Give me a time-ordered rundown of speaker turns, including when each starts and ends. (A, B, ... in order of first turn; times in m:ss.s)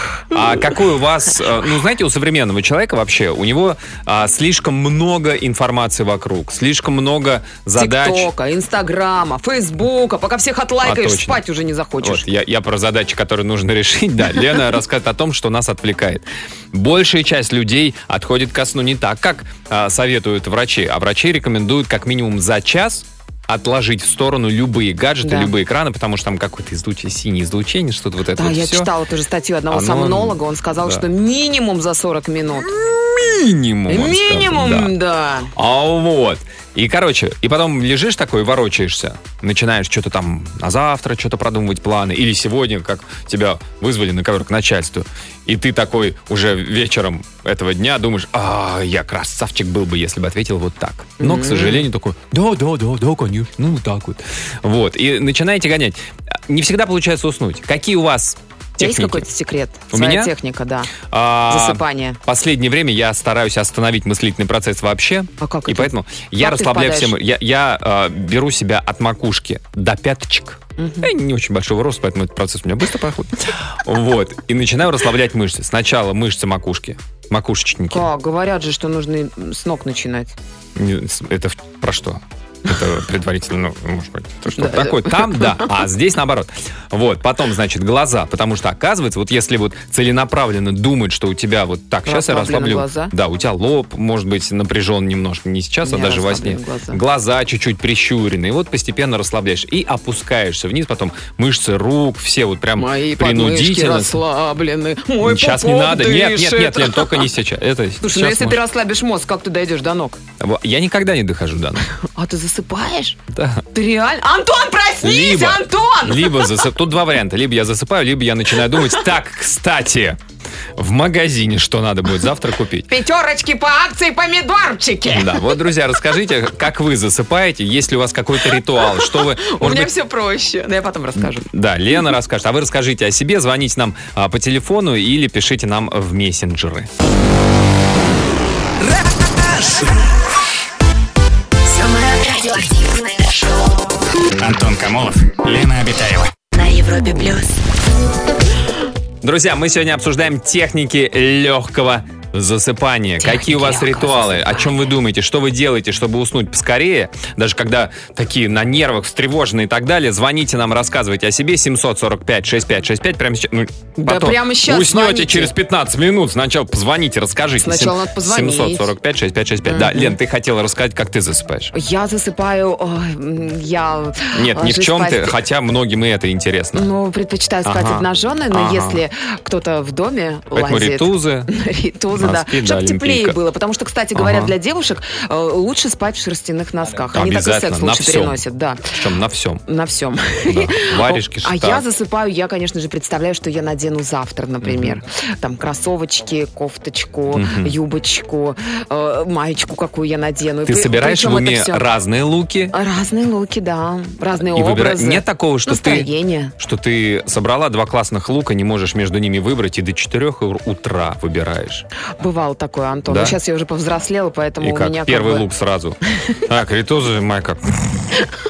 0:00.3-0:08.3 A
0:07.8-0:12.3 B
0:10.8-0:11.4 A
0:12.0-0:28.9 A
0:25.2-0:25.5 B
0:28.4-0:32.7 B
0:29.7-0:31.1 A
0:32.6-0:34.9 A
0:33.9-0:35.5 B
0:35.6-0:59.3 A
0:51.2-0:51.9 B
0:58.8-1:01.0 B
0:59.9-1:00.3 A
1:01.0-1:18.1 A
1:01.5-1:02.2 B
1:05.4-1:07.2 B
1:10.8-1:11.1 B
1:17.9-1:20.4 B
1:20.8-1:44.2 A
1:24.6-1:25.7 B
1:32.0-1:33.1 B
1:35.8-1:37.0 B
1:42.8-1:47.3 B
1:45.2-1:48.6 A
1:48.0-1:50.2 B
1:50.4-1:51.9 A
1:52.0-1:53.2 B
1:53.3-1:53.6 A
1:53.7-1:56.6 B
1:55.0-2:00.2 A
2:00.8-2:02.9 A
2:02.9-2:05.5 B
2:05.1-2:09.9 A
2:08.5-2:11.5 B
2:11.2-2:16.9 A
2:21.6-2:23.8 C
2:24.4-2:26.3 D
2:26.5-2:27.6 C
2:29.2-2:51.7 A
2:33.3-2:34.7 B
2:44.0-2:45.5 B
2:47.6-2:48.9 B
2:49.7-2:50.2 B
2:51.7-2:55.4 B
2:54.3-2:56.9 A
2:56.7-3:09.0 B
2:57.6-2:59.0 A
3:00.5-3:01.5 A
3:02.1-3:03.4 A
3:04.2-3:04.6 A
3:07.1-3:09.6 A
3:09.7-3:21.9 B
3:10.5-3:11.8 A
3:14.6-3:15.0 A
3:17.3-3:17.8 A
3:20.6-3:22.8 A
3:22.7-3:26.6 B
3:24.4-3:31.8 A
3:32.2-3:35.5 B
3:33.1-3:33.4 A
3:34.6-3:38.0 A